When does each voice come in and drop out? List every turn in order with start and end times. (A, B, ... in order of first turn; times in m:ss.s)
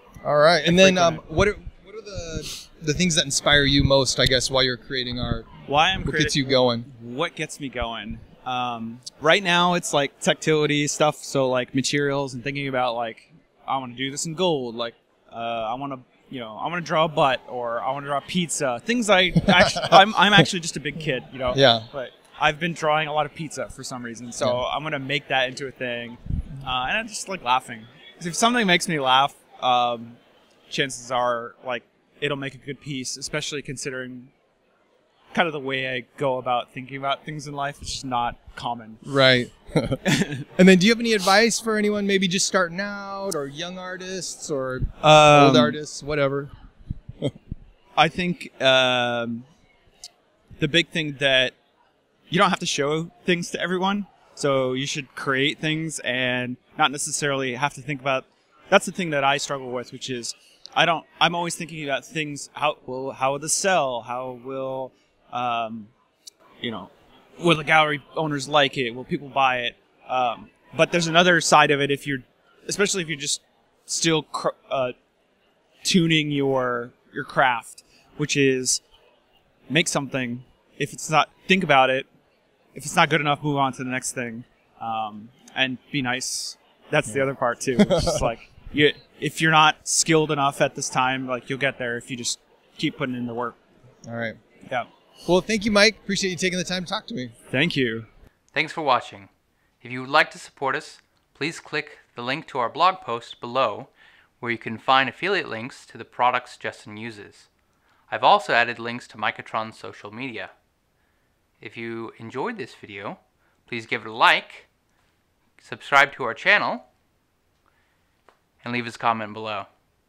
0:00.2-0:05.5 A
0:00.6-0:01.2 B
0:05.7-0:30.2 B
0:06.1-0:06.9 A
0:19.5-0:20.0 A
0:21.5-0:21.9 A
0:30.7-0:34.3 B
0:35.3-0:39.0 B
0:39.0-0:40.0 A
0:40.0-0:40.5 B
0:40.6-0:46.5 A
0:45.0-0:45.8 B
0:48.0-0:49.5 B
0:50.6-0:51.6 B
0:52.3-1:05.9 B
1:06.6-1:14.9 B
1:15.8-1:18.8 B
1:19.7-1:22.1 B
1:22.7-1:33.6 B
1:27.8-1:28.3 A
1:34.1-1:34.4 A
1:35.3-1:37.3 A
1:37.5-1:38.1 B
1:38.5-1:39.3 C
1:39.8-1:47.5 C
1:48.1-1:50.5 C
1:51.6-1:54.7 C
1:55.6-1:56.9 C
1:58.6-1:59.7 C